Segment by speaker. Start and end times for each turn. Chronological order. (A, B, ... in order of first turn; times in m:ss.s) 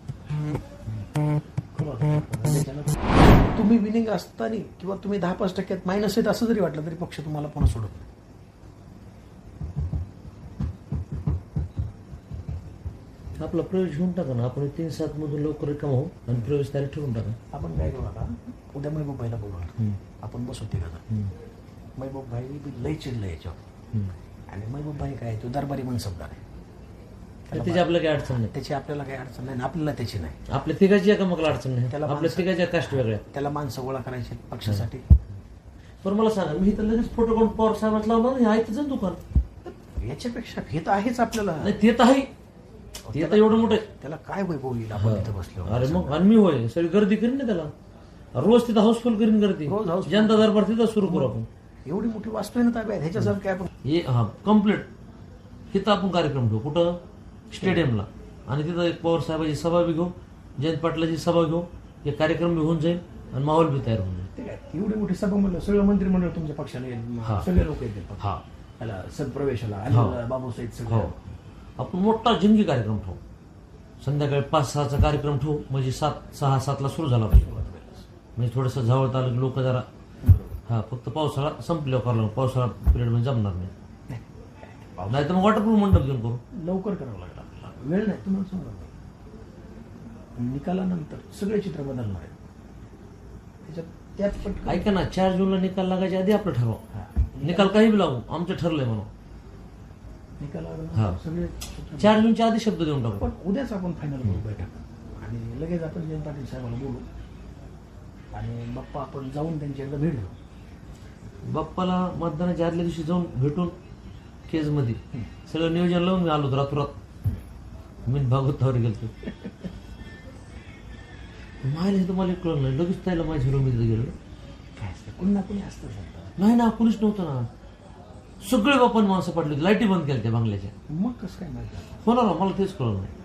0:01.7-0:08.1 A
0:13.4-0:17.4 B
0:17.5-0:21.0 A
0:22.0-0:23.6 A
0:24.5-0:26.4 A
0:27.5-0:30.4 A
0:27.5-0:28.5 B
0:30.5-0:33.2 B
0:31.9-0:35.1 A
0:36.0-0:39.2 B
0:39.6-0:41.8 A
0:41.6-0:42.3 B
0:43.0-0:46.2 A
0:43.1-0:43.9 B
0:45.0-0:47.7 B
0:48.4-0:51.5 B
0:49.6-0:50.5 A
0:51.0-0:53.7 A
0:53.8-0:54.9 B
0:55.7-0:57.0 B
0:57.5-1:04.3 B
0:57.5-0:57.9 A
1:04.4-1:08.3 A
1:08.8-1:11.2 A
1:09.9-1:10.2 B
1:10.9-1:11.2 B
1:11.8-1:13.2 B
1:14.0-1:17.6 B
1:17.3-1:18.1 A
1:18.4-1:19.9 B
1:20.2-1:20.6 A
1:20.7-1:23.7 B
1:24.1-1:25.5 A
1:25.1-1:26.4 B
1:26.5-1:28.9 A
1:30.4-1:32.3 A
1:33.6-1:34.9 A
1:34.7-1:36.8 B
1:36.9-1:37.8 A
1:37.4-1:39.1 B
1:40.4-1:42.3 A
1:42.0-1:43.3 B
1:43.1-1:47.0 A
1:48.3-1:50.3 A
1:51.5-1:53.7 B
1:54.5-1:57.0 B
1:58.1-1:59.1 B
2:01.6-2:04.1 B
2:04.8-2:06.4 A
2:06.4-2:07.5 B
2:08.4-2:10.7 B
2:10.9-2:11.9 A
2:12.0-2:13.1 B